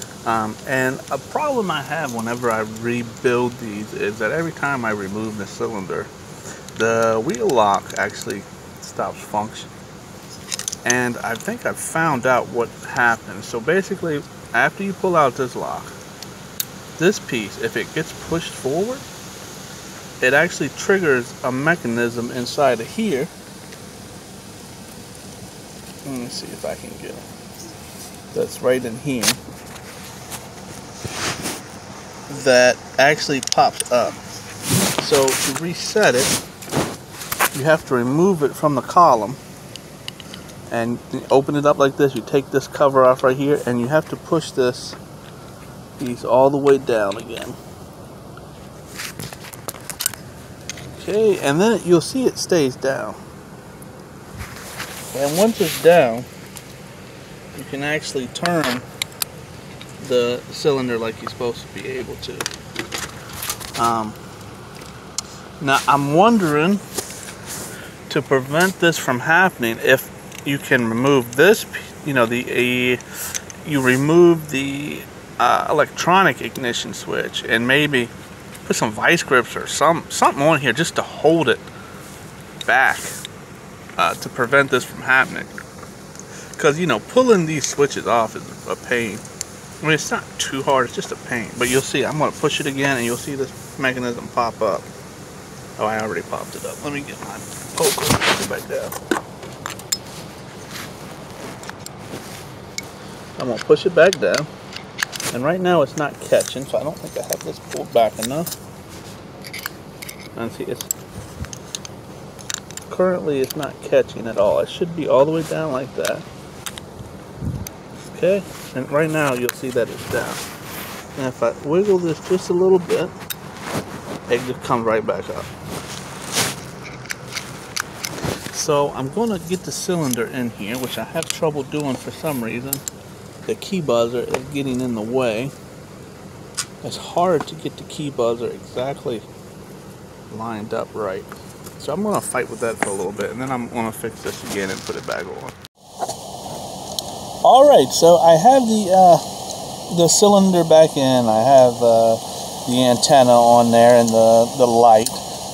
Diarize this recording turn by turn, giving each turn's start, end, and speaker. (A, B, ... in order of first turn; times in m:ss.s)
0:00.2-0:06.1 A
0:06.8-0:09.7 A
0:10.8-0:15.9 A
0:17.0-0:19.0 A
0:20.2-0:23.3 A
0:26.0-0:27.2 A
0:28.3-0:29.4 A
0:32.3-0:34.2 A
0:35.0-0:36.4 A
0:37.5-0:39.4 A
0:40.7-0:45.0 A
0:46.0-0:47.6 A
0:50.9-0:53.2 A
0:55.1-0:56.3 A
0:57.5-0:58.8 A
1:00.0-1:02.5 A
1:03.8-1:04.2 A
1:05.6-1:06.8 A
1:08.1-1:13.0 A
1:13.6-1:18.1 A
1:18.6-1:21.7 A
1:22.6-1:23.2 A
1:24.0-1:25.5 A
1:26.6-1:29.2 A
1:29.8-1:34.8 A
1:35.8-1:39.0 A
1:43.4-1:44.5 A
1:45.3-1:48.5 A
1:50.3-1:50.9 A
1:52.9-1:56.2 A
1:58.0-2:00.4 A
2:01.2-2:03.1 A
2:04.3-2:05.5 A
2:08.5-2:12.8 A
2:13.5-2:15.5 A
2:16.8-2:19.2 A
2:20.3-2:25.5 A
2:27.4-2:29.2 A
2:29.9-2:35.2 A